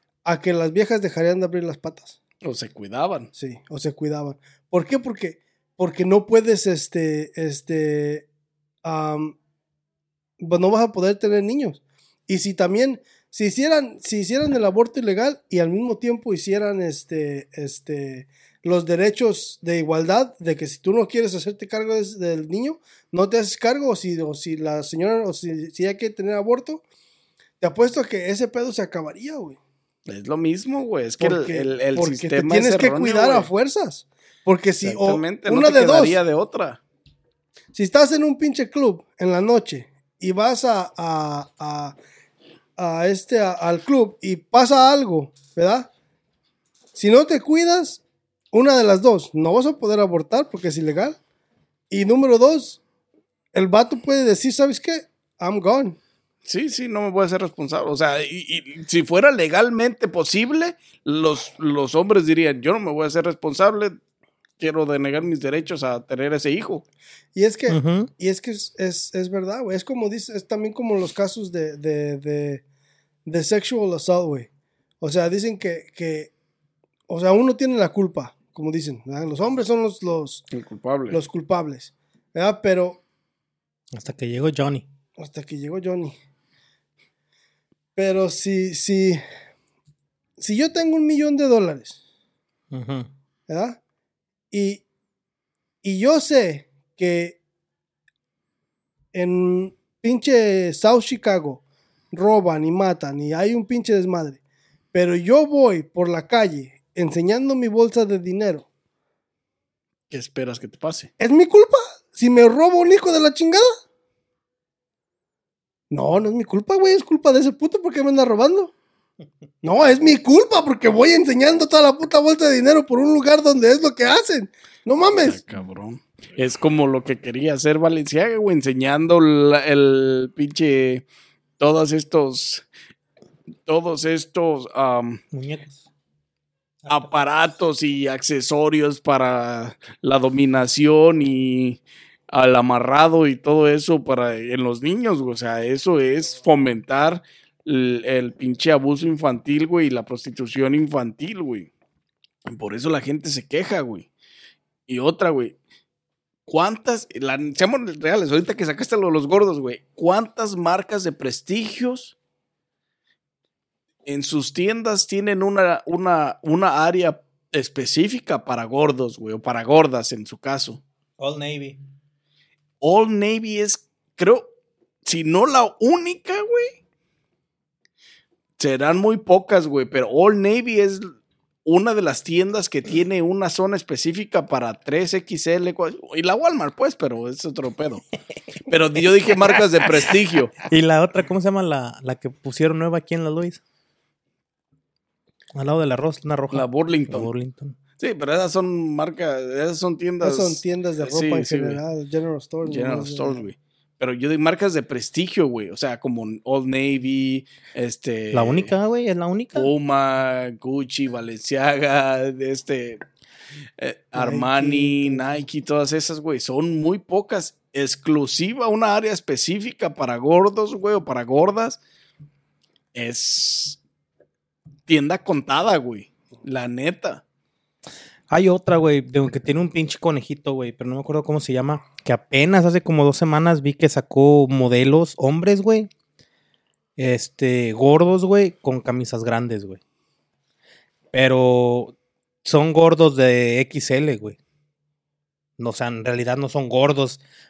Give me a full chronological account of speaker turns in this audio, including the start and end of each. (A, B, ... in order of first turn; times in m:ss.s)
0:00.3-0:02.2 A
0:02.4-0:03.3 B
0:03.4-0:08.3 A
0:08.8-0:09.4 A
0:10.4-0:26.8 A
0:27.6-0:29.6 A
0:30.1-0:33.5 B
0:31.2-0:36.2 A
0:34.8-0:36.8 B
0:37.7-0:42.0 A
0:42.8-0:45.9 A
0:47.0-0:51.2 A
0:51.9-0:52.8 A
0:53.5-0:56.0 A
0:56.4-1:04.0 B
1:04.6-1:06.8 B
1:07.4-1:12.6 A
1:07.7-1:08.1 C
1:13.3-1:14.5 A
1:15.0-1:16.3 A
1:17.1-1:20.4 A
1:20.5-1:21.2 B
1:21.1-1:23.0 A
1:23.9-1:24.8 C
1:25.2-1:26.1 A
1:28.0-1:29.2 A
1:30.4-1:32.0 A
1:32.7-1:33.1 C
1:33.5-1:33.8 A
1:34.5-1:34.8 A
1:35.8-1:37.4 A
1:39.1-1:44.4 A
1:44.9-1:48.7 A
1:50.1-1:51.1 B
1:51.2-1:53.8 A
1:55.9-1:58.7 A
1:59.6-2:05.4 A
2:05.2-2:11.0 B
2:11.6-2:12.6 B
2:13.7-2:15.2 B
2:15.3-2:15.8 C
2:16.8-2:17.2 C
2:16.9-2:31.7 B
2:32.4-2:34.1 B
2:34.9-2:35.6 B
2:36.5-2:42.1 B
2:44.1-2:50.8 B
2:51.2-2:51.8 C
2:52.8-2:54.5 B
2:55.1-2:56.8 B
2:58.6-3:01.1 B
3:01.6-3:08.0 B
3:08.7-3:10.6 B
3:09.0-3:13.6 C
3:15.5-3:17.8 C
3:16.5-3:17.3 B
3:18.0-3:21.8 B
3:20.2-3:23.4 A
3:22.6-3:28.7 B
3:28.3-3:29.7 C
3:29.5-3:33.0 B
3:33.8-3:41.8 B
3:34.1-3:35.4 A
3:43.0-3:43.8 B
3:44.9-3:47.2 B
3:48.3-3:55.9 C
3:57.0-3:59.8 C
4:01.1-4:04.4 C
4:05.6-4:07.2 C